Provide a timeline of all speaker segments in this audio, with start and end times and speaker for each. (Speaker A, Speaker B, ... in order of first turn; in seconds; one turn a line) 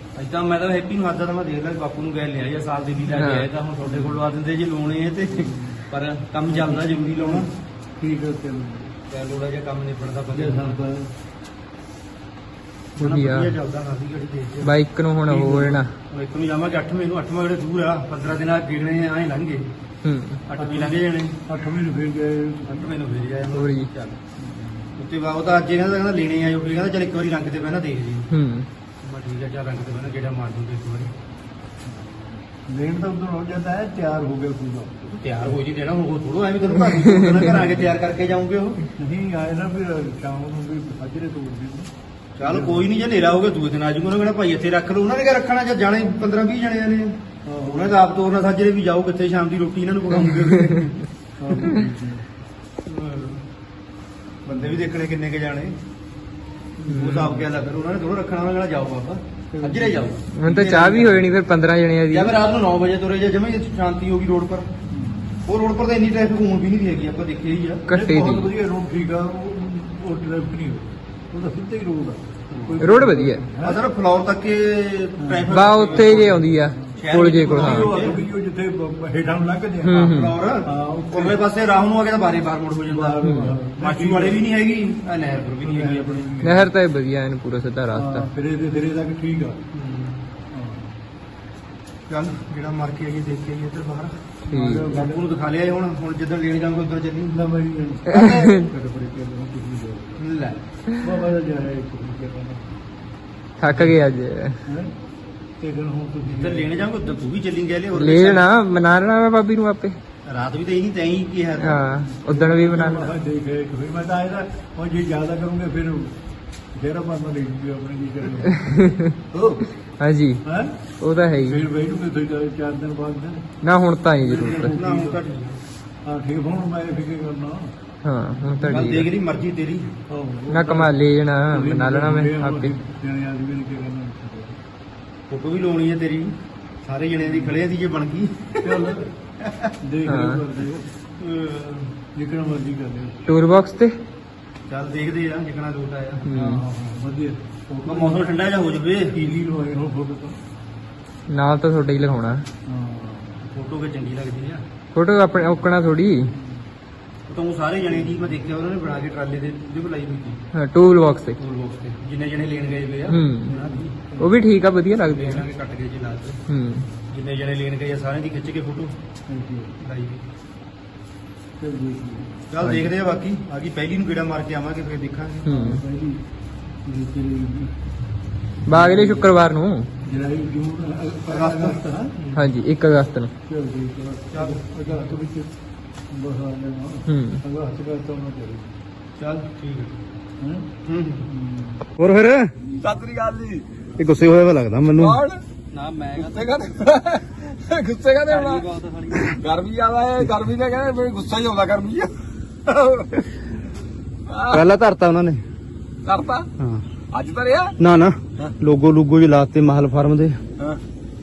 Speaker A: 0.1-7.5
Speaker B: 3.1-3.5
Speaker C: 3.8-4.2
Speaker C: 5.3-5.8
Speaker C: 6.5-8.9
Speaker A: 9.1-10.8
Speaker C: 10.3-11.1
Speaker A: 13.0-14.7
Speaker B: 13.0-13.5
Speaker B: 14.6-15.9
Speaker A: 15.3-19.7
Speaker B: 20.0-20.4
Speaker A: 20.5-21.4
Speaker C: 20.6-23.0
Speaker A: 22.7-24.2
Speaker B: 23.5-23.9
Speaker C: 24.4-25.0
Speaker A: 25.0-28.3
Speaker B: 28.3-28.7
Speaker A: 29.0-31.1
Speaker C: 31.8-35.2
Speaker A: 35.1-38.8
Speaker B: 37.0-37.5
Speaker C: 39.0-41.9
Speaker A: 42.4-51.0
Speaker C: 42.4-42.9
Speaker C: 47.5-48.0
Speaker C: 51.4-52.3
Speaker A: 52.9-53.4
Speaker A: 54.5-55.8
Speaker C: 54.5-54.8
Speaker C: 56.8-57.5
Speaker A: 56.9-61.3
Speaker B: 56.9-57.4
Speaker C: 59.5-60.1
Speaker B: 60.4-62.3
Speaker A: 62.1-64.7
Speaker C: 64.9-65.3
Speaker A: 65.5-67.8
Speaker B: 67.9-68.5
Speaker C: 67.9-73.8
Speaker A: 72.5-72.8
Speaker B: 72.8-73.4
Speaker A: 73.6-78.2
Speaker C: 75.2-76.9
Speaker B: 75.5-78.0
Speaker C: 77.5-81.4
Speaker B: 79.8-80.4
Speaker A: 80.0-86.3
Speaker C: 82.9-84.4
Speaker B: 83.2-83.5
Speaker C: 85.6-86.7
Speaker B: 86.4-88.3
Speaker C: 87.9-89.6
Speaker A: 89.7-90.2
Speaker C: 90.5-91.0
Speaker A: 92.1-94.1
Speaker C: 94.5-95.3
Speaker B: 94.5-94.9
Speaker A: 94.9-97.4
Speaker C: 97.3-100.3
Speaker B: 98.1-98.7
Speaker A: 100.2-100.6
Speaker C: 100.9-102.8
Speaker B: 103.6-104.6
Speaker C: 104.7-105.0
Speaker C: 105.6-106.9
Speaker A: 106.2-108.5
Speaker B: 108.0-110.0
Speaker A: 110.3-111.8
Speaker B: 111.6-113.1
Speaker C: 112.0-116.2
Speaker C: 116.7-118.7
Speaker B: 118.6-119.2
Speaker C: 119.3-119.7
Speaker B: 120.0-120.4
Speaker C: 120.5-120.8
Speaker B: 121.0-121.6
Speaker C: 121.4-123.5
Speaker B: 123.6-124.8
Speaker C: 124.2-125.2
Speaker A: 124.7-125.6
Speaker C: 126.0-127.7
Speaker B: 128.0-129.1
Speaker C: 128.3-128.9
Speaker A: 128.7-129.9
Speaker C: 130.1-134.6
Speaker B: 130.5-132.8
Speaker A: 135.3-136.3
Speaker A: 136.8-138.8
Speaker C: 137.2-137.6
Speaker C: 138.6-139.1
Speaker A: 139.4-139.7
Speaker C: 139.8-140.9
Speaker B: 140.1-140.4
Speaker A: 141.2-141.9
Speaker C: 142.2-143.2
Speaker B: 143.3-143.9
Speaker A: 144.7-146.3
Speaker B: 146.3-146.6
Speaker C: 146.3-148.3
Speaker A: 147.9-149.2
Speaker C: 149.1-150.4
Speaker B: 151.3-152.4
Speaker C: 152.7-153.5
Speaker A: 153.5-154.6
Speaker B: 154.9-156.3
Speaker C: 156.3-156.7
Speaker A: 157.3-160.4
Speaker B: 160.5-161.4
Speaker A: 161.4-163.9
Speaker B: 163.1-163.5
Speaker C: 163.5-164.4
Speaker B: 164.2-165.5
Speaker A: 165.1-166.4
Speaker B: 166.5-166.9
Speaker A: 167.1-169.0
Speaker C: 169.3-169.8
Speaker A: 169.8-170.2
Speaker C: 171.6-172.4
Speaker A: 172.5-175.8
Speaker B: 172.6-172.9
Speaker B: 175.4-175.8
Speaker C: 175.5-176.2
Speaker C: 176.8-177.8
Speaker B: 178.7-179.9
Speaker C: 178.7-179.4
Speaker C: 180.0-182.5
Speaker A: 181.3-181.8
Speaker B: 182.3-183.3
Speaker C: 183.5-185.6
Speaker A: 184.3-185.2
Speaker C: 186.1-188.8
Speaker B: 187.1-187.4
Speaker A: 189.2-190.0
Speaker C: 190.4-191.9
Speaker A: 190.9-191.3
Speaker A: 192.0-192.5
Speaker D: 192.8-193.7
Speaker A: 194.0-195.2
Speaker D: 195.0-195.4
Speaker E: 195.7-196.7
Speaker D: 196.2-202.1
Speaker E: 198.3-199.4
Speaker D: 202.7-203.3
Speaker D: 204.3-204.7
Speaker A: 204.5-205.4
Speaker D: 206.1-206.5
Speaker A: 206.6-206.8
Speaker D: 207.1-207.8
Speaker A: 207.8-210.4